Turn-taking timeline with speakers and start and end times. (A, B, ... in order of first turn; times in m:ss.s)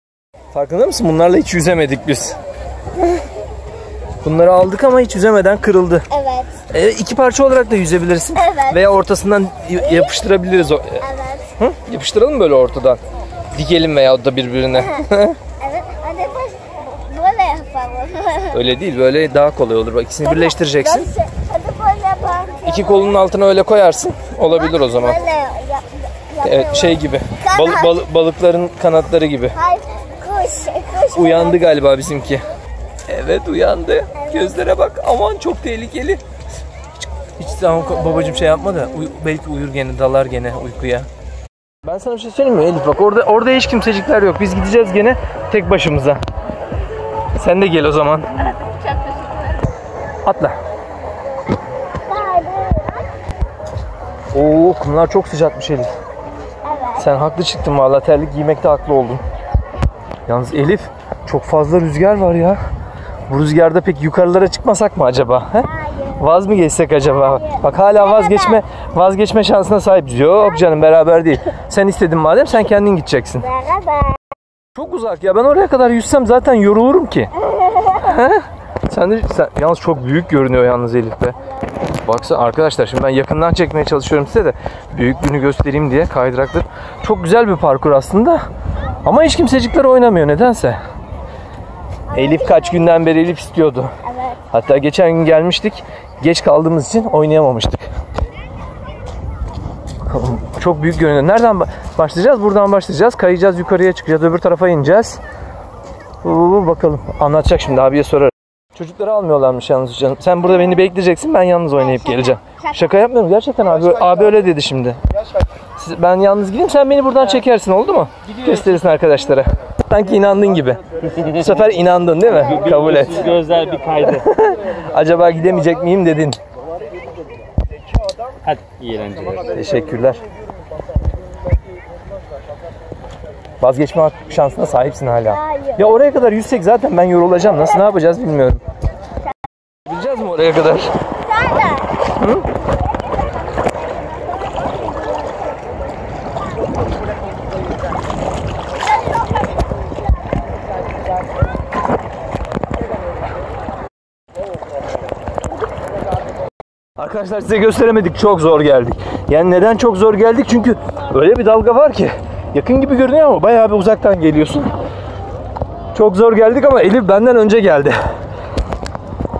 0:00.5-0:02.4 A
0:04.2-0:06.1 A
0:06.1-0:06.6 B
0:06.7-0:11.0 A
0:08.4-0:08.8 B
0:11.0-0:11.5 B
0:11.6-0:13.0 A
0:13.5-0:15.4 A
0:14.8-0:18.6 B
0:18.5-0:21.1 A
0:20.2-0:23.2 B
0:22.6-0:25.2 A
0:24.5-0:28.0 B
0:26.4-0:29.6 A
0:29.5-0:31.6 B
0:31.1-0:32.4 A
0:33.1-0:36.2 A
0:34.2-0:34.6 B
0:37.4-0:41.1 A
0:41.8-0:46.2 A
0:47.4-0:48.5 A
0:50.2-0:50.6 A
0:52.0-0:53.0 B
0:54.3-0:55.9 A
0:56.6-0:57.0 B
0:57.0-0:59.2 A
1:00.3-1:02.6 A
1:03.3-1:13.5 A
1:05.6-1:06.3 B
1:07.1-1:08.6 B
1:13.4-1:14.2 B
1:14.7-1:17.3 A
1:17.4-1:18.2 B
1:18.0-1:21.4 A
1:22.0-1:28.4 A
1:29.0-1:30.8 A
1:32.1-1:32.9 B
1:32.1-1:33.9 A
1:34.0-1:34.4 B
1:34.5-1:37.8 A
1:40.1-1:45.2 A
1:46.2-1:55.0 A
1:55.8-2:03.4 A
2:02.7-2:04.2 C
2:04.0-2:06.4 A
2:08.4-2:09.4 C
2:09.4-2:10.2 A
2:13.6-2:18.6 A
2:15.3-2:16.0 B
2:19.8-2:20.9 A
2:21.1-2:22.0 B
2:22.1-2:22.4 A
2:24.2-2:25.4 B
2:29.0-2:29.8 B
2:37.0-2:44.7 A
2:45.9-2:48.0 A